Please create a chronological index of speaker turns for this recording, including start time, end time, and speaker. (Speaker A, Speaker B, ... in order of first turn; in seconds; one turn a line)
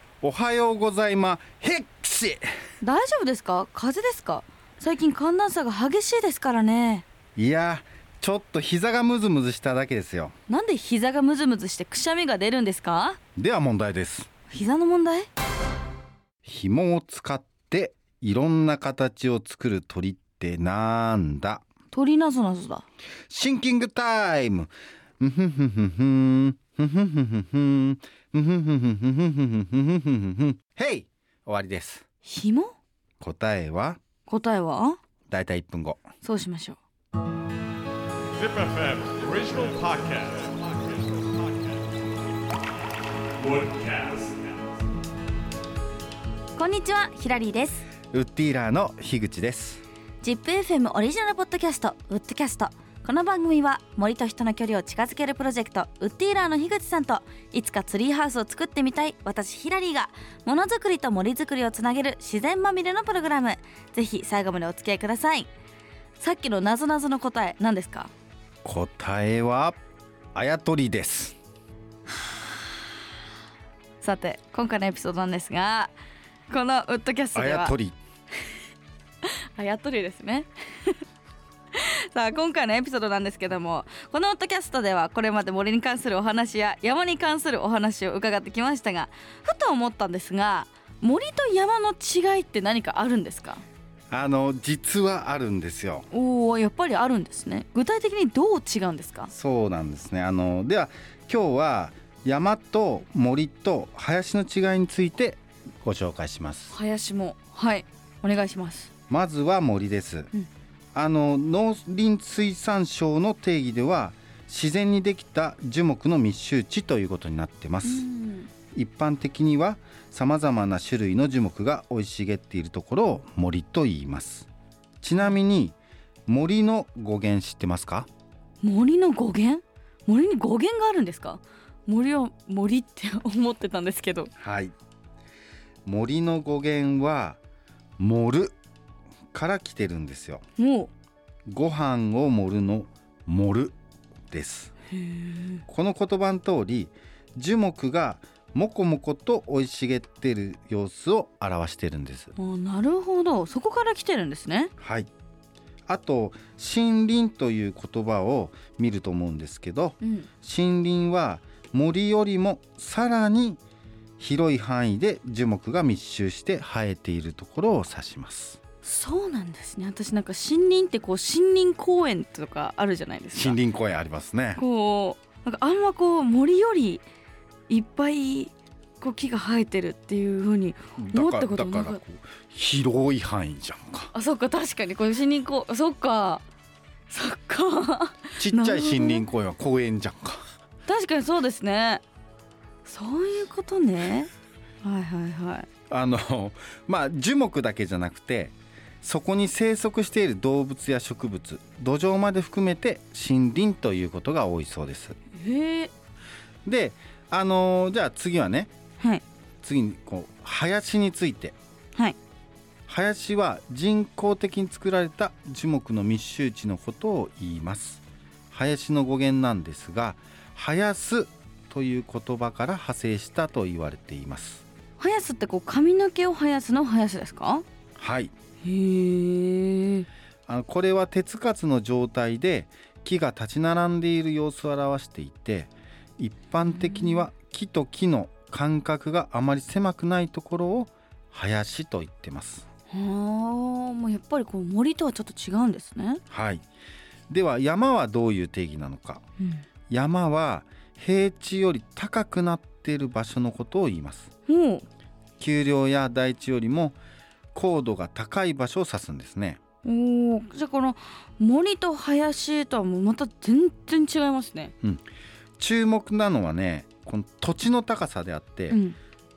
Speaker A: 0.2-2.5
Speaker B: 2.8-7.0
Speaker A: 7.4-10.3
Speaker B: 10.5-13.2
Speaker A: 13.4-14.3
Speaker B: 14.5-15.3
Speaker A: 16.4-21.6
Speaker B: 21.9-22.9
Speaker A: 23.3-32.0
Speaker B: 32.2-32.7
Speaker A: 33.2-34.0
Speaker B: 34.3-35.0
Speaker A: 35.3-36.0
Speaker B: 36.2-36.8
Speaker C: 38.5-40.5
Speaker C: 43.5-44.4
Speaker B: 46.6-47.9
Speaker A: 48.1-49.8
Speaker B: 50.2-65.5
Speaker B: 66.2-68.1
Speaker A: 68.6-69.8
Speaker A: 70.3-71.4
Speaker B: 74.0-75.9
Speaker B: 76.5-77.8
Speaker A: 77.3-78.0
Speaker B: 79.2-81.0
Speaker B: 81.7-93.6
Speaker A: 94.1-96.1
Speaker B: 96.1-99.3
Speaker A: 99.3-106.8
Speaker B: 106.7-108.9
Speaker A: 109.1-110.3
Speaker A: 111.0-118.1
Speaker B: 117.8-118.5
Speaker A: 118.7-124.5
Speaker A: 125.0-125.8
Speaker A: 126.3-128.1
Speaker B: 128.6-134.3
Speaker A: 134.4-134.7
Speaker A: 135.8-137.4
Speaker A: 138.0-138.6
Speaker A: 139.3-140.4
Speaker B: 140.6-140.9
Speaker A: 141.5-143.8
Speaker A: 144.3-144.7
Speaker B: 144.9-145.6
Speaker A: 145.7-152.3
Speaker B: 152.3-154.7
Speaker A: 154.8-155.1
Speaker A: 155.9-163.6
Speaker B: 160.0-160.3
Speaker A: 164.2-168.6
Speaker B: 168.8-173.6
Speaker A: 173.3-174.6
Speaker B: 174.6-177.0
Speaker B: 177.7-182.0
Speaker A: 181.0-184.1
Speaker B: 184.1-186.4
Speaker B: 187.1-189.3
Speaker A: 188.4-190.4
Speaker B: 190.9-192.0
Speaker B: 192.8-194.3
Speaker B: 194.8-195.7
Speaker A: 195.9-205.2
Speaker B: 205.3-205.9
Speaker A: 206.7-208.7
Speaker A: 209.6-211.6
Speaker A: 212.9-224.6
Speaker B: 225.0-227.7
Speaker A: 228.0-228.3
Speaker B: 228.6-230.1
Speaker A: 230.5-242.7
Speaker B: 236.7-237.2
Speaker B: 242.9-246.2
Speaker A: 246.3-246.7
Speaker A: 247.3-249.2
Speaker A: 249.9-254.3
Speaker B: 254.5-254.8
Speaker A: 255.4-257.0
Speaker A: 257.5-259.6
Speaker B: 259.8-264.7
Speaker A: 265.6-268.8
Speaker B: 268.7-269.0